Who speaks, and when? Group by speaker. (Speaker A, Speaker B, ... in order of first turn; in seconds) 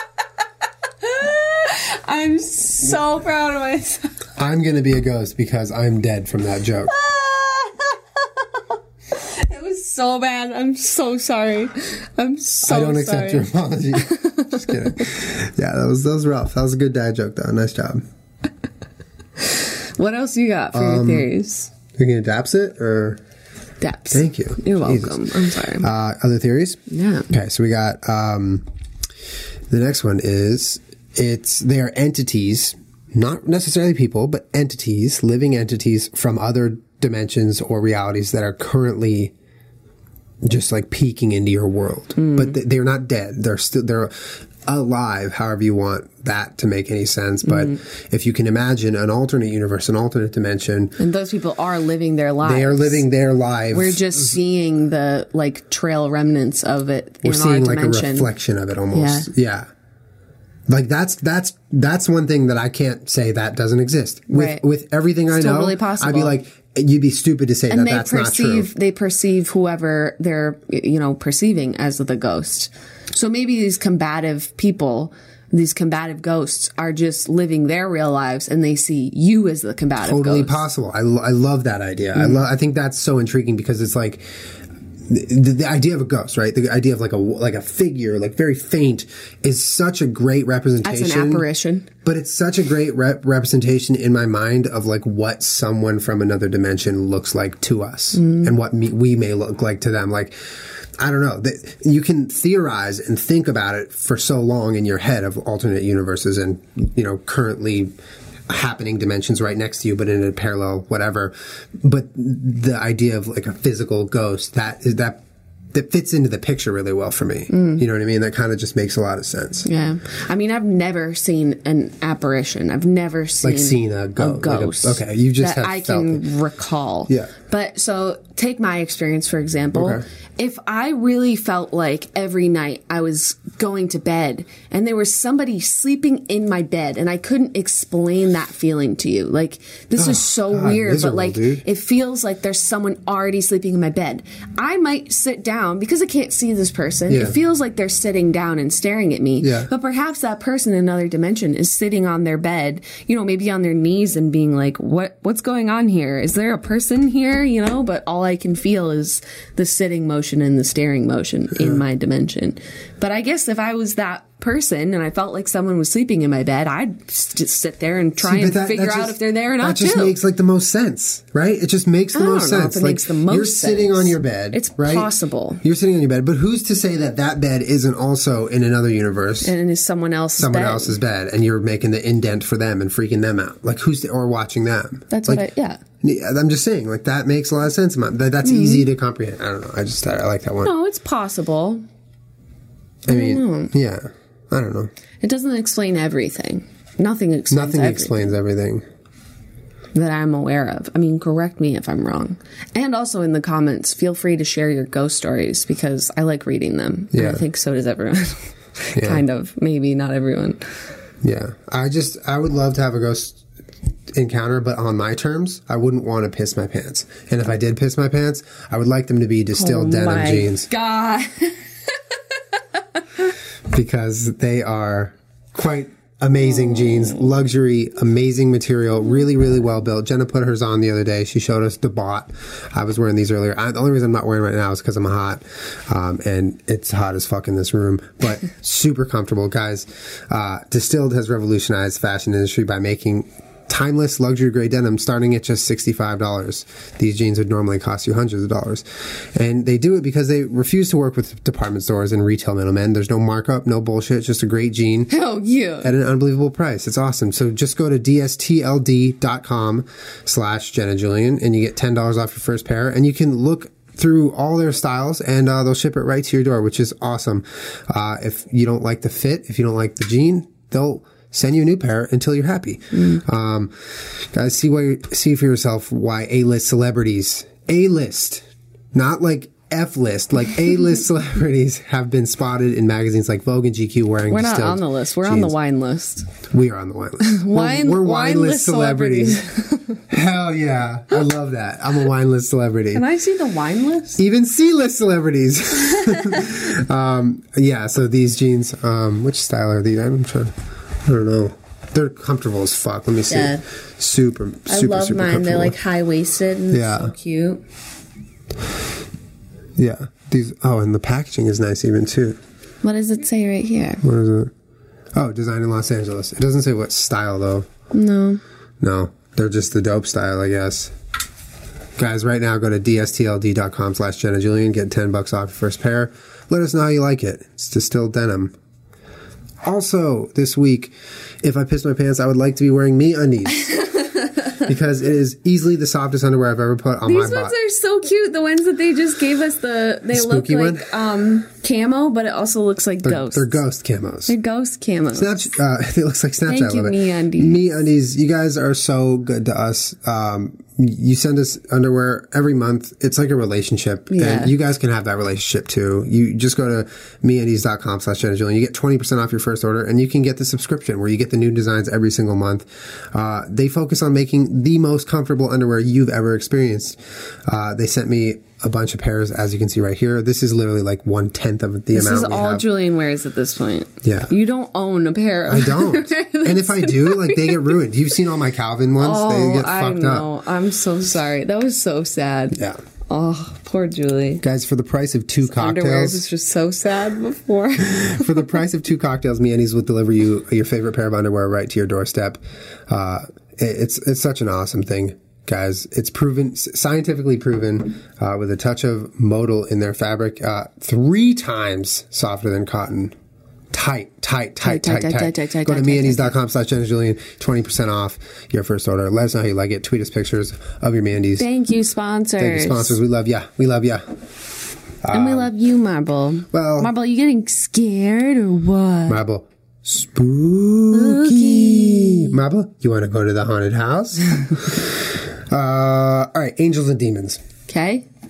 Speaker A: 1.0-4.1, 6.9-8.0, 9.1-14.9, 19.4-21.7, 23.8-25.9, 26.9-27.3, 42.2-42.5, 51.0-53.0, 53.7-58.3, 58.9-59.3, 64.3-64.6, 65.3-66.4, 67.7-80.6, 90.8-91.9, 98.2-98.5, 117.5-117.8, 119.6-170.2, 172.1-175.6, 179.4-181.0, 185.1-185.8, 188.4-188.8, 190.6-191.8, 193.1-193.7, 195.2-198.3, 199.9-210.6, 219.5-221.9, 255.1-255.9, 284.3-286.3, 287.2-290.0, 292.9-294.2, 303.3-303.6, 304.7-307.6, 312.8-314.0, 317.9-318.4, 337.0-343.5, 344.3-345.5, 346.5-347.6, 354.1-354.5, 371.9-377.8, 379.0-384.4, 385.4-388.5, 404.6-406.3, 411.4-413.0, 415.1-419.2, 420.9-422.4, 427.7-428.0
Speaker B: 4.4-6.9, 12.6-18.0, 20.7-21.3, 22.0-23.2, 24.1-28.6, 29.7-39.3, 40.4-51.0, 52.4-54.4, 57.2-59.7, 60.7-68.7, 80.0-84.2, 85.0-91.4, 92.0-107.9, 108.5-115.2, 115.7-119.7, 123.4-126.2, 129.7-130.0, 140.0-141.6, 147.1-147.3, 149.4-149.7, 168.2-175.1, 175.6-179.5, 180.4-185.4, 186.0-190.7, 193.1-194.9, 197.5-198.8, 207.1-207.4, 208.9-209.2, 211.2-213.4, 214.1-220.7, 223.7-255.1, 255.8-285.5, 286.5-289.4, 290.1-293.0, 294.2-305.7, 306.7-307.1, 309.8-312.4, 314.0-314.5, 315.1-317.7, 318.8-320.9, 322.0-328.5, 329.6-333.8, 334.6-337.5, 340.1-340.9, 343.0-344.3, 345.1-372.6, 374.0-374.3, 375.5-380.3, 384.4-386.2, 387.9-403.1, 403.7-411.5, 412.4-414.0, 415.0-415.5, 416.5-416.9, 419.1-427.4